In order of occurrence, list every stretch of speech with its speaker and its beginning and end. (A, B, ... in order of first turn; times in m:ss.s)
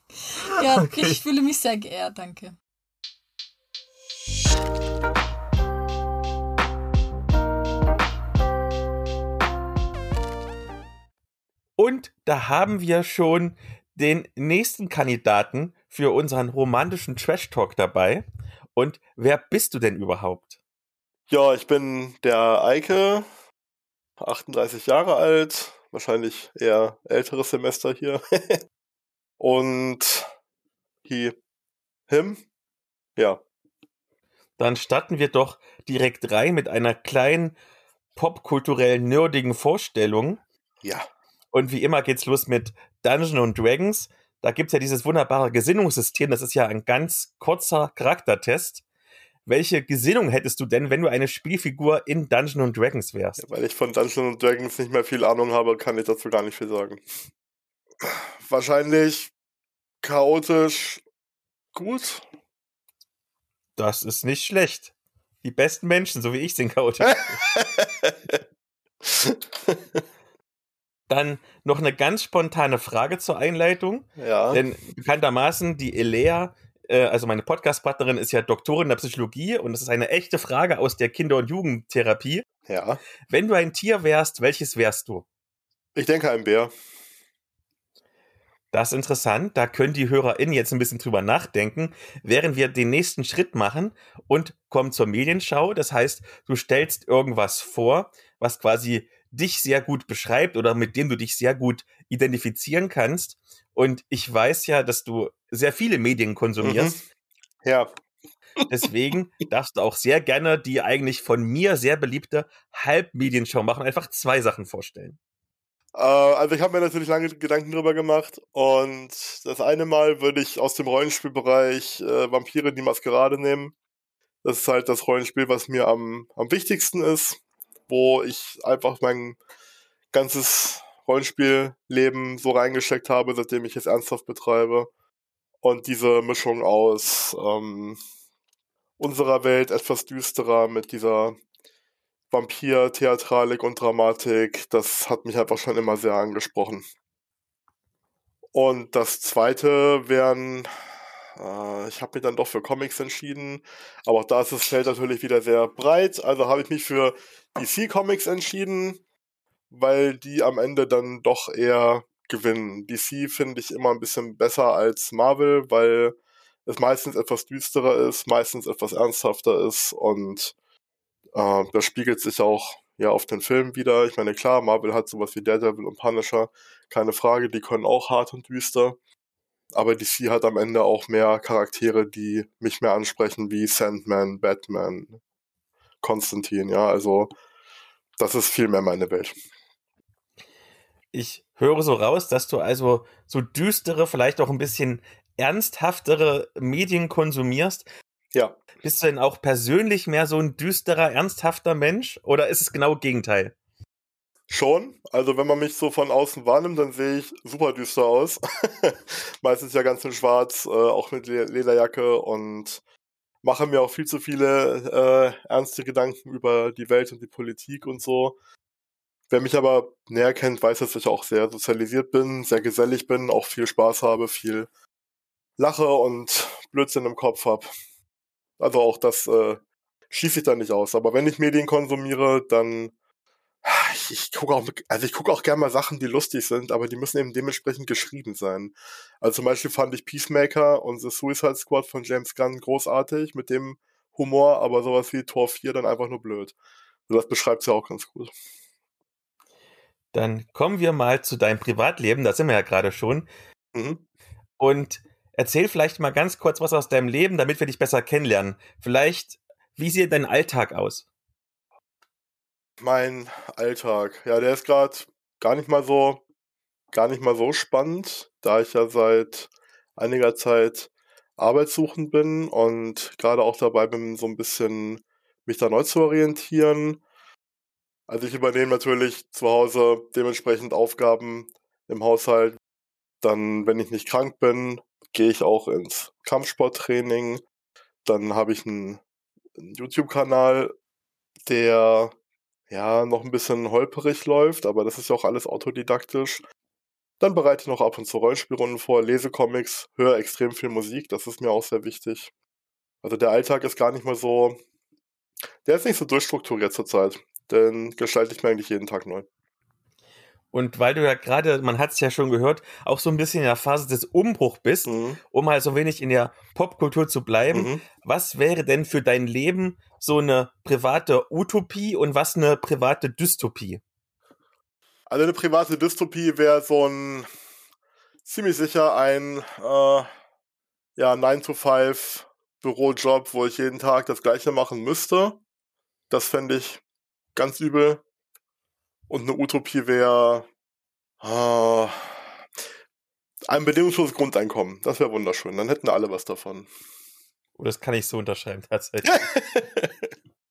0:00.4-0:02.5 A
0:00.4-0:01.2 B
0:11.8-0:20.6 B
0:21.3-0:23.2 C
0:24.2-0:28.6 C
0:29.4-0:30.3 C
0:31.0-0:31.4 C
0:32.1-0:32.4 C
0:34.6-0:37.6 B
0:38.1-0:40.4 B
0:41.5-0:48.8 B
0:49.4-0:53.4 B
0:53.4-0:57.0 C
0:58.0-0:59.3 C
1:00.0-1:01.0 C
1:01.7-1:02.2 C
1:03.8-1:07.4 B
1:07.4-1:08.4 C
1:09.0-1:10.0 C
1:11.1-1:22.4 B
1:14.2-1:14.6 C
1:22.7-1:23.0 C
1:23.3-1:25.2 B
1:25.9-1:26.7 C
1:28.7-1:46.9 B
1:46.6-1:47.0 C
1:47.6-1:47.9 C
1:48.7-1:55.2 B
1:55.9-2:03.7 C
2:04.4-2:09.4 C
2:10.1-2:14.9 C
2:15.6-2:18.0 C
2:19.0-2:21.4 C
2:22.3-2:26.8 C
2:28.5-2:30.7 C
2:31.4-2:39.0 C
2:39.7-2:50.5 C
2:51.3-2:59.0 C
2:59.7-3:05.2 C
3:06.0-3:07.3 C
3:08.2-3:09.3 C
3:11.1-3:17.9 B
3:18.8-3:23.5 B
3:24.5-3:32.8 C
3:33.4-3:38.4 C
3:39.3-3:44.7 C
3:45.6-3:47.7 C
3:48.6-3:52.9 C
3:53.6-4:06.5 C
4:07.1-4:08.3 C
4:10.1-4:13.3 B
4:13.7-4:14.0 C
4:14.6-4:21.0 B
4:22.8-4:26.2 C
4:26.9-4:37.0 C
4:38.1-4:42.6 C
4:43.2-4:47.4 C
4:48.0-4:49.0 C
4:49.6-4:50.7 C
4:51.4-4:52.1 C
4:52.7-4:56.4 C
4:57.2-5:02.3 C
5:03.0-5:04.6 C
5:05.6-5:09.3 C
5:10.5-5:23.8 B
5:14.9-5:15.2 C
5:17.5-5:17.8 C
5:25.1-5:27.3 C
5:28.2-5:30.1 C
5:31.0-5:35.4 C
5:36.1-5:36.8 C
5:37.3-5:38.0 C
5:39.1-5:40.5 C
5:41.2-5:42.1 C
5:43.5-5:46.7 C
5:47.6-5:49.2 B
5:49.0-5:50.1 C